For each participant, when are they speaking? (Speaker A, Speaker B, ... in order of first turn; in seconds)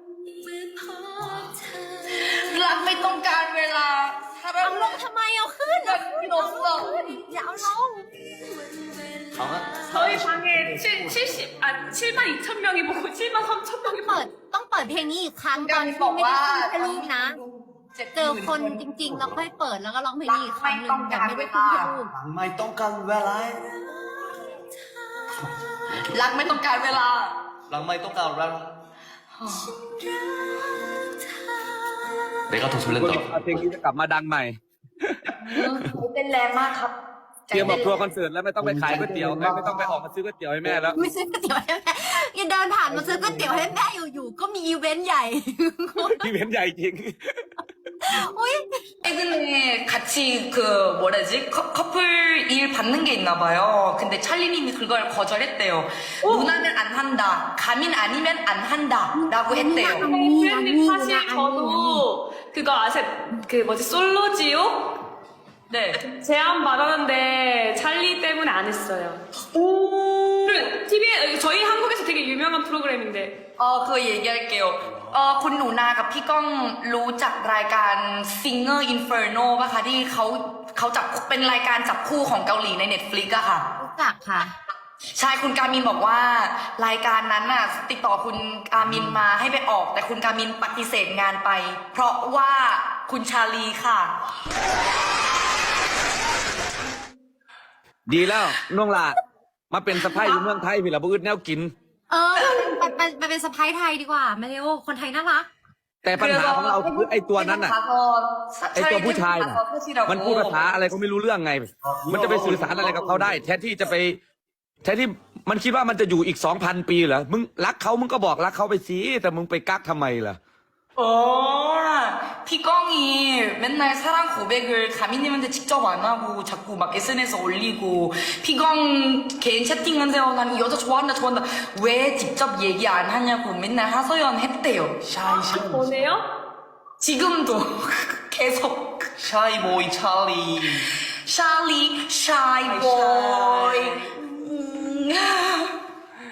Speaker A: 0.5-2.1, 4.6-10.1, 13.9-17.4, 18.1-22.1, 30.0-32.1, 40.9-46.2, 48.0-48.6, 59.1-62.0, 83.8-84.5, 102.1-105.5
Speaker B: 2.1-5.0, 5.7-7.2, 15.5-18.8, 20.2-21.9, 26.1-27.4, 29.4-29.8, 35.4-36.9, 37.5-38.1, 49.0-60.1, 65.7-66.0, 69.6-70.5, 73.6-83.7, 85.2-94.2, 102.4-102.9, 106.2-110.7, 121.0-135.0, 137.0-139.1, 140.8-145.7
Speaker C: 9.3-11.3, 19.0-19.4, 22.1-23.9, 27.7-28.7, 32.5-33.7, 37.6-37.8, 38.6-40.0, 40.7-41.0, 42.9-43.6, 88.9-89.2, 111.8-113.4, 135.0-136.1, 139.2-140.9, 142.7-143.8
Speaker D: 9.9-14.2, 56.2-56.6, 59.9-64.9, 66.0-69.2, 70.4-73.3, 135.2-136.2
Speaker E: 32.9-35.8, 37.5-41.0, 46.0-47.3, 98.1-99.2, 99.7-101.7, 106.0-107.8, 108.8-114.2, 114.8-120.4